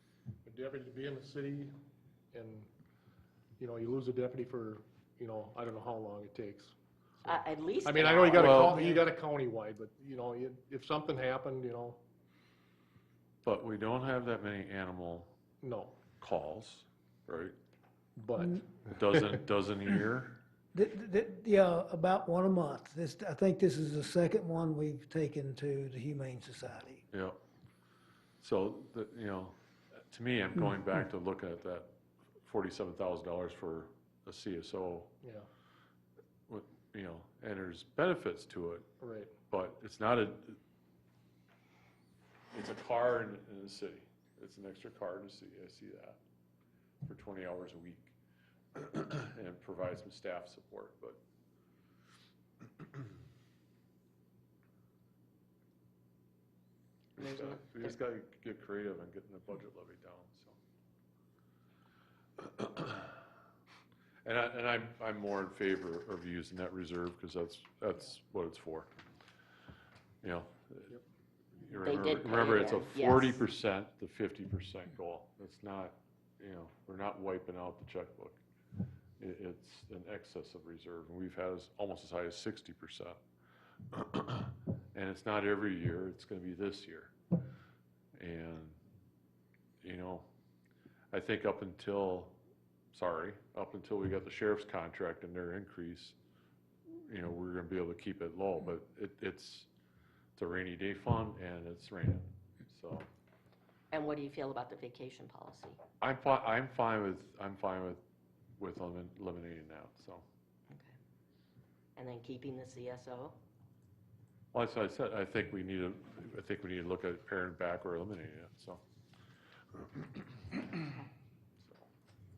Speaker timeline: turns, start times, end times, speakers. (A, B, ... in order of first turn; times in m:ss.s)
0:00.4-0:01.7 A
0:02.3-0:02.7 A
0:03.6-0:06.8 A
0:07.2-0:09.1 B
0:07.8-0:12.0 A
0:08.3-0:08.8 C
0:13.4-0:15.3 C
0:15.6-0:16.0 A
0:16.2-0:17.5 C
0:18.2-0:19.4 A
0:18.9-0:20.4 C
0:20.7-0:27.0 D
0:27.1-0:27.4 C
0:28.4-0:35.1 C
0:35.2-0:35.5 A
0:36.5-0:38.8 C
0:39.0-0:39.3 A
0:39.5-0:40.6 C
0:42.5-0:46.2 C
0:47.0-0:48.1 C
0:48.7-0:51.2 C
0:57.2-1:00.6 C
0:57.2-0:57.9 B
1:02.4-1:03.1 C
1:04.2-1:08.9 C
1:10.2-1:11.0 C
1:11.6-1:18.4 C
1:11.8-1:13.4 B
1:19.2-1:23.2 C
1:23.9-1:27.1 C
1:28.2-1:28.8 C
1:29.8-1:30.3 C
1:31.1-1:32.3 C
1:32.9-1:36.1 C
1:36.9-1:39.7 C
1:40.4-1:43.1 C
1:43.9-1:45.8 B
1:46.0-1:48.0 C
1:48.6-1:50.2 C
1:50.7-1:50.9 B
1:52.0-1:53.4 B
1:54.5-1:58.8 C
1:59.9-2:00.8 C
2:01.6-2:01.9 C